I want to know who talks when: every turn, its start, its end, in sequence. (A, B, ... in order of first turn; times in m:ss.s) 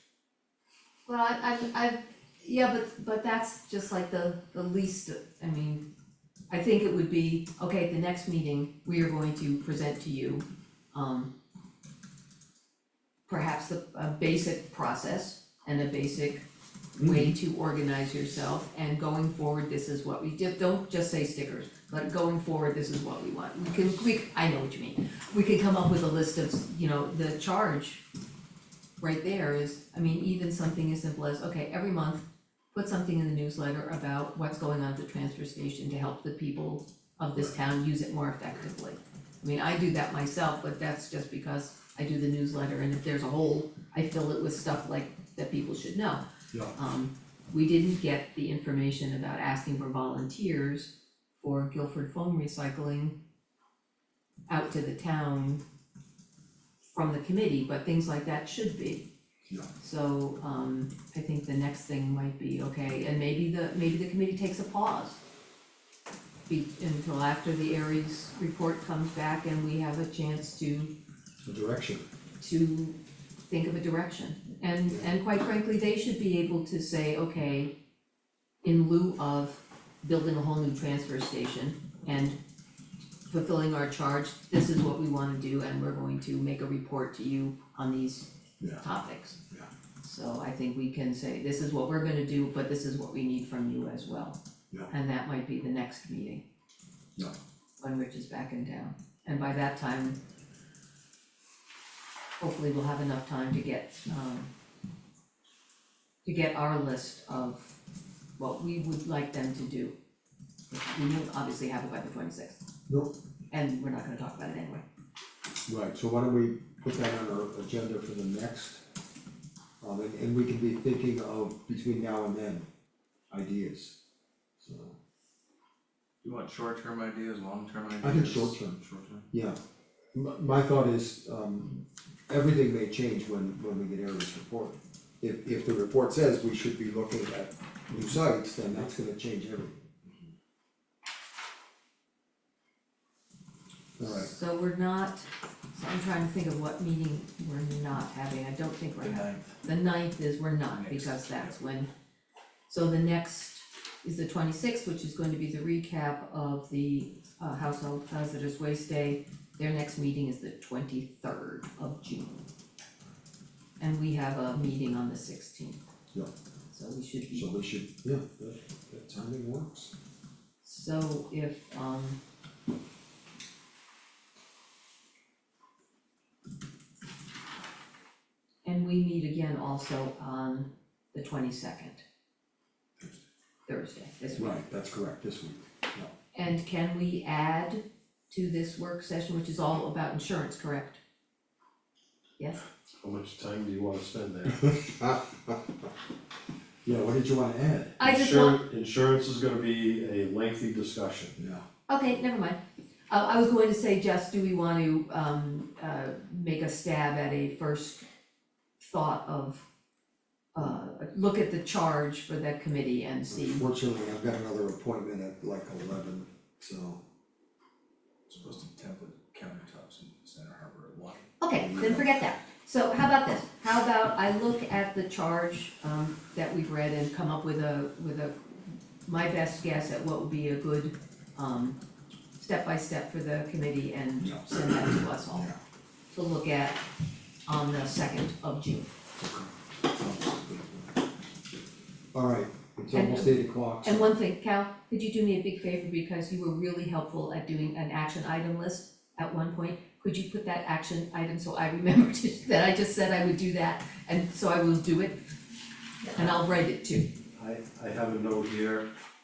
0:01.1-0:05.8 A
0:06.5-0:11.3 A
0:13.3-0:16.4 A
0:17.0-0:28.0 A
0:17.0-0:17.3 B
0:29.0-0:46.2 A
0:46.7-0:53.1 A
0:54.5-0:55.6 A
0:56.9-0:59.1 A
0:59.8-1:05.2 A
1:06.5-1:10.9 A
1:11.4-1:12.0 B
1:12.4-1:13.0 A
1:13.5-1:17.7 A
1:18.6-1:22.4 A
1:23.3-1:29.4 A
1:30.0-1:34.4 A
1:34.9-1:36.4 A
1:37.8-1:40.2 A
1:42.4-1:44.5 A
1:46.2-1:47.8 A
1:48.4-1:49.9 A
1:50.7-1:52.6 A
1:53.5-1:54.8 A
1:55.7-1:58.8 B
1:59.8-2:02.7 B
2:03.3-2:03.9 B
2:04.6-2:05.0 B
2:06.2-2:09.2 C
2:08.0-2:08.8 B
2:09.3-2:09.6 B
2:10.1-2:19.8 B
2:24.0-2:24.3 B
2:24.0-2:31.9 A
2:29.0-2:29.5 C
2:30.8-2:31.5 C
2:32.7-2:42.4 A
2:43.8-2:45.8 A
2:46.7-2:47.5 A
2:47.3-2:49.9 B
2:50.6-2:52.2 A
2:58.6-3:02.0 A
3:03.7-3:04.6 A
3:04.4-3:06.1 B
3:06.3-3:11.0 A
3:12.4-3:12.6 A
3:13.0-3:14.6 D
3:14.5-3:15.6 B
3:16.8-3:18.0 B
3:18.0-3:18.6 A
3:18.0-3:21.4 D
3:21.4-3:21.6 B
3:21.9-3:28.0 A
3:28.8-3:29.6 A
3:30.5-3:33.6 A
3:33.3-3:37.0 B
3:38.3-3:41.2 C
3:41.4-3:51.8 A
3:41.6-3:42.1 B
3:52.4-3:55.5 A
3:54.2-3:55.6 B
3:56.1-3:56.8 A
3:57.5-3:58.9 A
3:59.2-4:01.0 B
4:02.1-4:04.1 B
4:02.9-4:15.2 A
4:16.1-4:17.1 A
4:17.4-4:18.9 D